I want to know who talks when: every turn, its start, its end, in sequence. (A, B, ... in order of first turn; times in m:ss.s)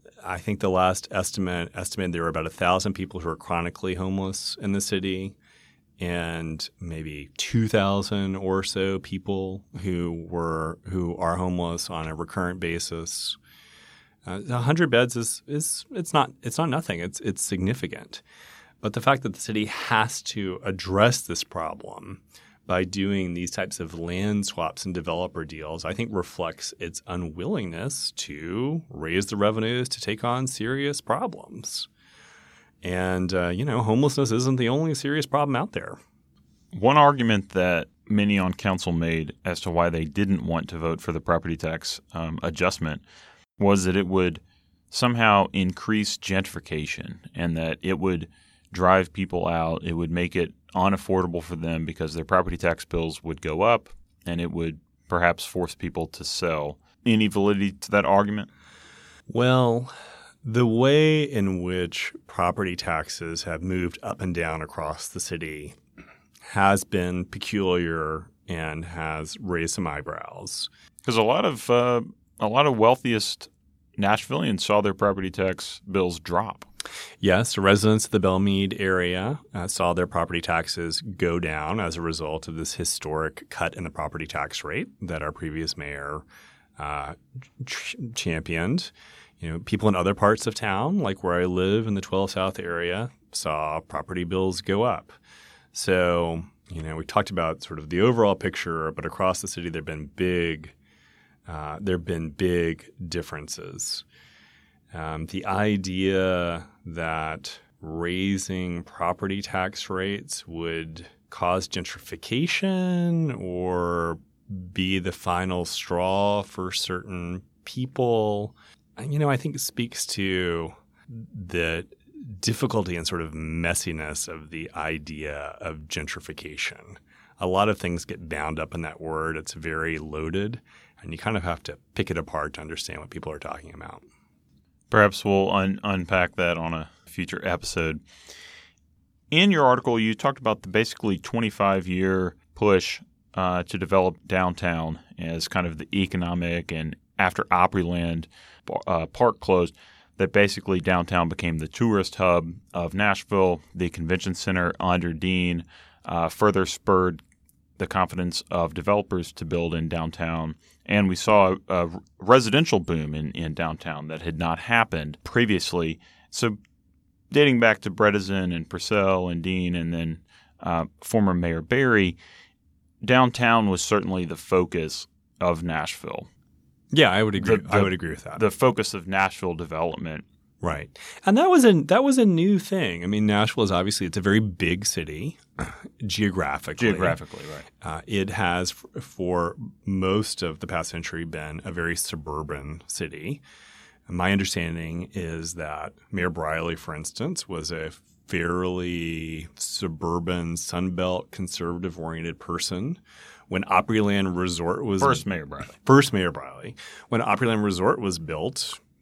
0:00.2-0:05.4 A
0:06.0-0:13.4 A
0:14.2-0:18.2 A
0:18.8-0:31.9 A
0:32.8-0:36.0 A
0:36.7-0:43.0 B
0:43.6-0:58.5 B
0:59.3-1:05.8 A
1:06.5-1:10.7 A
1:11.0-1:16.7 B
1:17.2-1:26.2 A
1:26.8-1:35.2 A
1:35.7-1:40.8 A
1:41.5-1:44.0 A
1:44.9-2:14.0 A
2:14.9-2:18.0 B
2:19.3-2:37.2 B
2:37.8-2:46.6 B
2:47.3-2:52.2 B
2:53.0-2:56.3 B
2:56.9-2:58.4 A
2:57.4-3:00.2 B
3:00.6-3:07.2 A
3:06.8-3:07.7 B
3:07.8-3:13.4 A
3:14.1-3:28.8 A
3:25.0-3:25.7 B